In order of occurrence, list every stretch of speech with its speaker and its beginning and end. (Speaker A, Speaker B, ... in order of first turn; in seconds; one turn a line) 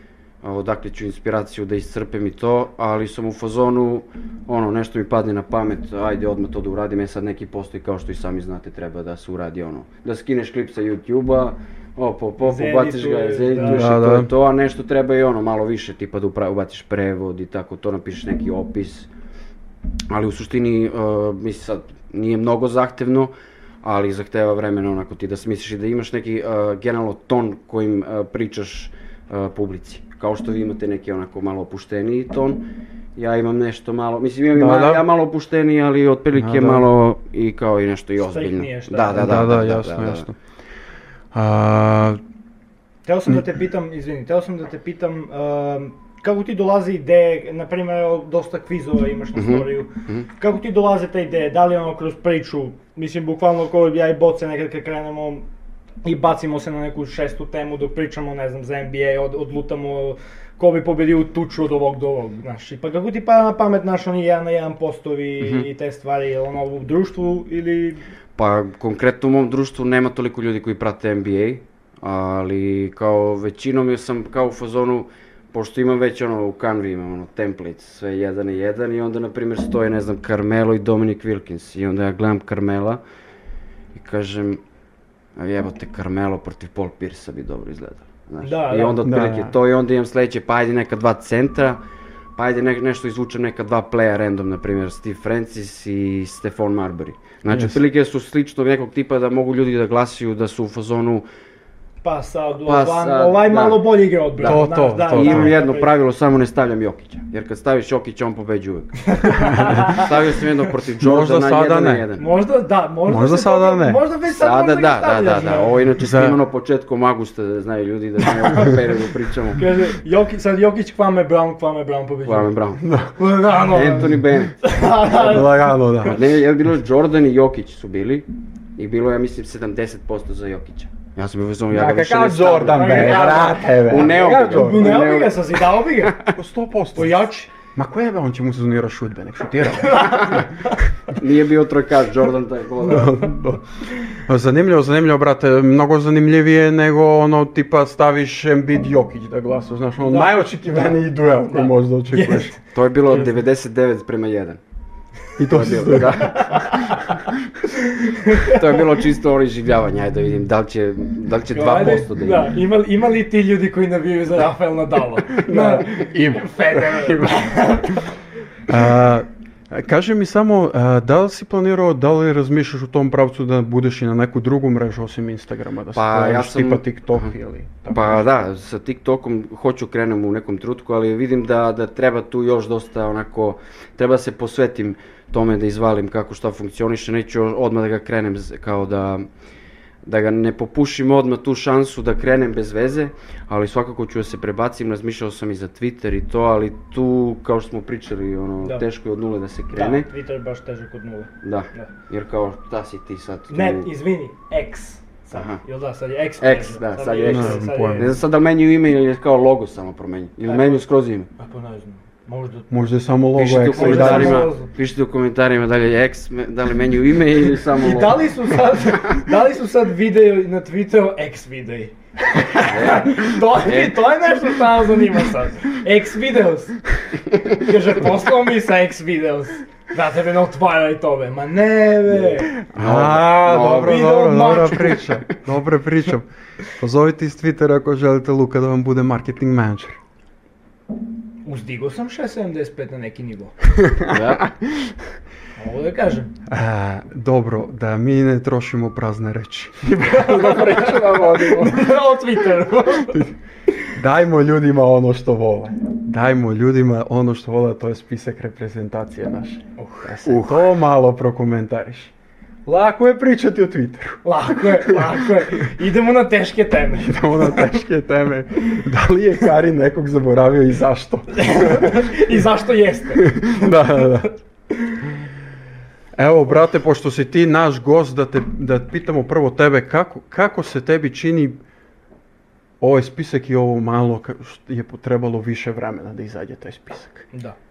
Speaker A: 0.4-19.1
Speaker B: 12.4-13.9
Speaker C: 13.6-14.3
Speaker A: 20.1-32.6
Speaker A: 33.2-40.3
Speaker C: 34.5-35.0
Speaker C: 36.3-36.9
Speaker B: 38.2-39.3
Speaker C: 39.1-40.4
Speaker C: 41.3-42.2
Speaker B: 43.1-55.5
Speaker A: 49.4-50.3
Speaker B: 56.0-68.0
Speaker A: 65.4-65.7
Speaker A: 68.4-83.0
Speaker A: 83.9-84.6
Speaker A: 85.4-91.8
Speaker B: 88.4-89.0
Speaker C: 89.0-89.6
Speaker A: 92.4-101.3
Speaker C: 97.5-97.8
Speaker B: 102.0-105.9
Speaker A: 102.7-112.3
Speaker C: 104.4-105.6
Speaker B: 109.1-110.1
Speaker C: 109.4-110.1
Speaker C: 111.0-112.1
Speaker B: 112.2-115.8
Speaker C: 113.1-114.0
Speaker A: 114.3-119.7
Speaker C: 116.0-116.4
Speaker B: 118.5-118.8
Speaker B: 119.5-122.5
Speaker A: 122.2-122.9
Speaker C: 122.8-123.2
Speaker B: 123.2-125.7
Speaker A: 123.6-124.8
Speaker C: 125.2-126.3
Speaker A: 126.0-136.3
Speaker C: 131.7-135.1
Speaker B: 132.2-136.2
Speaker C: 136.3-140.8
Speaker B: 137.0-137.5
Speaker B: 139.8-140.5
Speaker A: 140.1-140.4
Speaker A: 141.1-143.3
Speaker C: 142.8-143.6
Speaker C: 144.2-152.5
Speaker B: 150.0-151.0
Speaker B: 151.5-152.6
Speaker A: 152.7-154.6
Speaker C: 155.4-157.2
Speaker A: 155.5-156.9
Speaker B: 156.2-157.1
Speaker B: 157.7-158.8
Speaker A: 158.4-162.5
Speaker B: 161.5-168.1
Speaker C: 165.3-167.7
Speaker C: 168.7-178.3
Speaker A: 175.9-177.3
Speaker A: 177.9-189.3
Speaker A: 190.1-200.1
Speaker B: 199.7-201.9
Speaker A: 201.4-203.9
Speaker B: 203.5-208.2
Speaker A: 205.3-205.6
Speaker A: 206.4-211.3
Speaker C: 207.2-208.2
Speaker B: 210.5-210.8
Speaker B: 211.4-212.9
Speaker C: 212.7-214.5
Speaker A: 213.4-218.3
Speaker B: 213.7-214.7
Speaker B: 217.8-232.6
Speaker A: 222.6-224.1
Speaker A: 232.5-234.0
Speaker C: 232.7-240.0
Speaker B: 233.5-235.2
Speaker B: 241.4-243.6
Speaker A: 244.1-244.5
Speaker B: 245.6-246.3
Speaker C: 246.5-252.0
Speaker B: 250.1-253.3
Speaker C: 253.9-262.1
Speaker B: 259.8-260.1
Speaker A: 260.2-260.7
Speaker C: 262.7-265.3
Speaker B: 264.2-267.6
Speaker C: 267.0-272.4
Speaker B: 271.3-274.3
Speaker C: 273.2-274.3
Speaker C: 276.2-281.6
Speaker C: 282.8-287.3